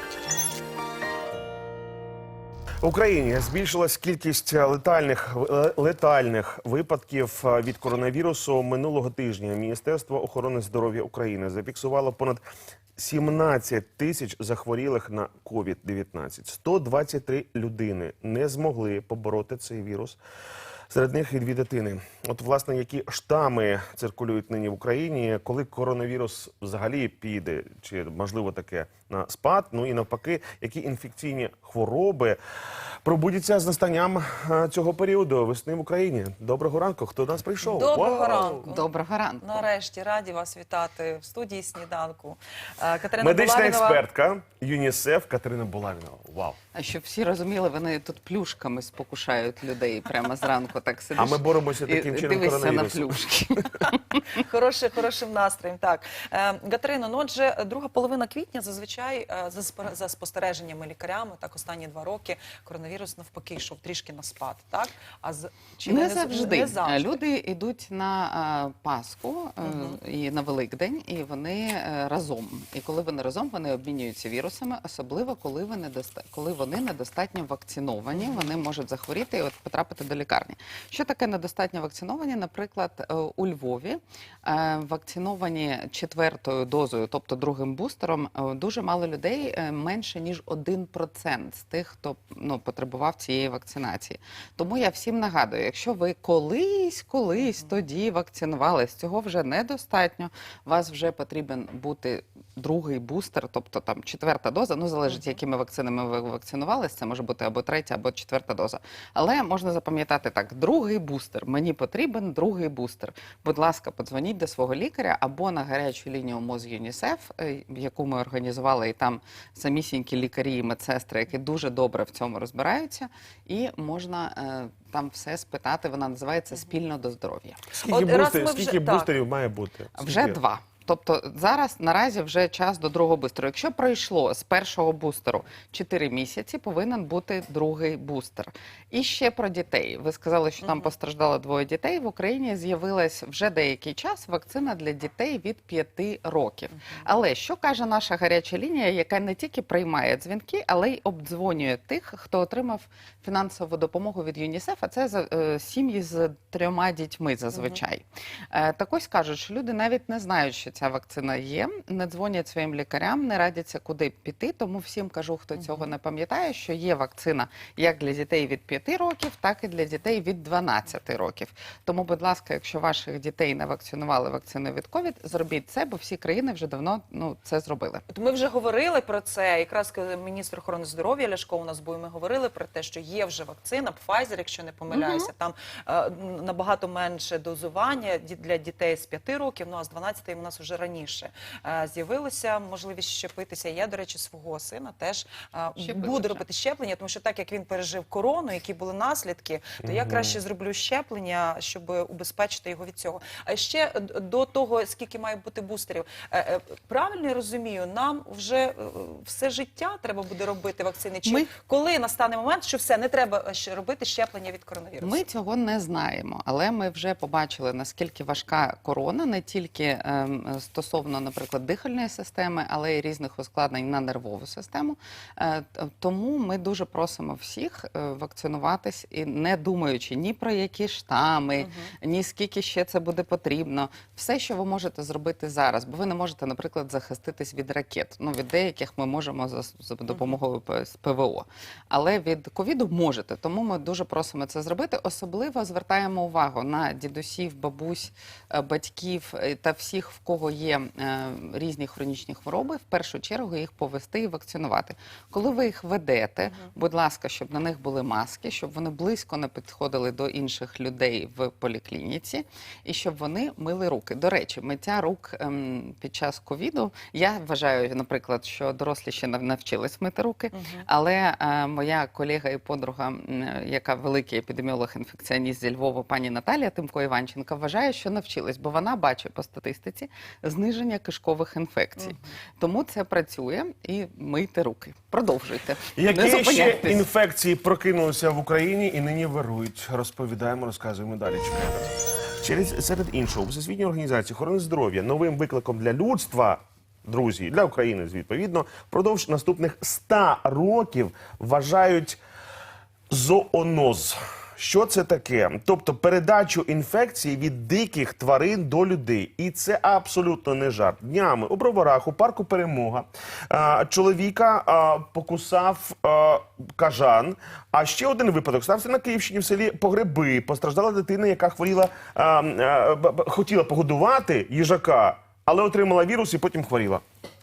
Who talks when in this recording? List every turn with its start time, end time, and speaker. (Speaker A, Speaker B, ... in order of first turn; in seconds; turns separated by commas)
Speaker A: 2.8-12.4, Speaker A: 13.0-20.2, Speaker A: 20.9-32.4, Speaker A: 33.0-38.6, Speaker B: 37.6-38.9, Speaker C: 38.7-39.7, Speaker B: 39.4-44.0, Speaker A: 43.2-46.5, Speaker C: 46.7-54.4, Speaker A: 51.1-53.1, Speaker B: 54.4-67.2, Speaker C: 65.8-127.6, Speaker B: 69.6-70.0, Speaker B: 78.1-78.5, Speaker A: 127.7-130.4, Speaker B: 127.8-129.1, Speaker C: 130.0-178.0, Speaker B: 140.6-140.9, Speaker B: 157.5-157.8, Speaker B: 165.6-165.9, Speaker B: 178.1-215.2, Speaker C: 184.9-185.3, Speaker C: 195.8-196.4, Speaker A: 199.8-200.4, Speaker C: 211.2-211.5, Speaker C: 215.0-287.1, Speaker B: 231.6-231.9, Speaker B: 240.1-240.3, Speaker B: 270.5-270.8, Speaker B: 282.0-282.3, Speaker A: 285.9-302.2, Speaker A: 303.1-327.0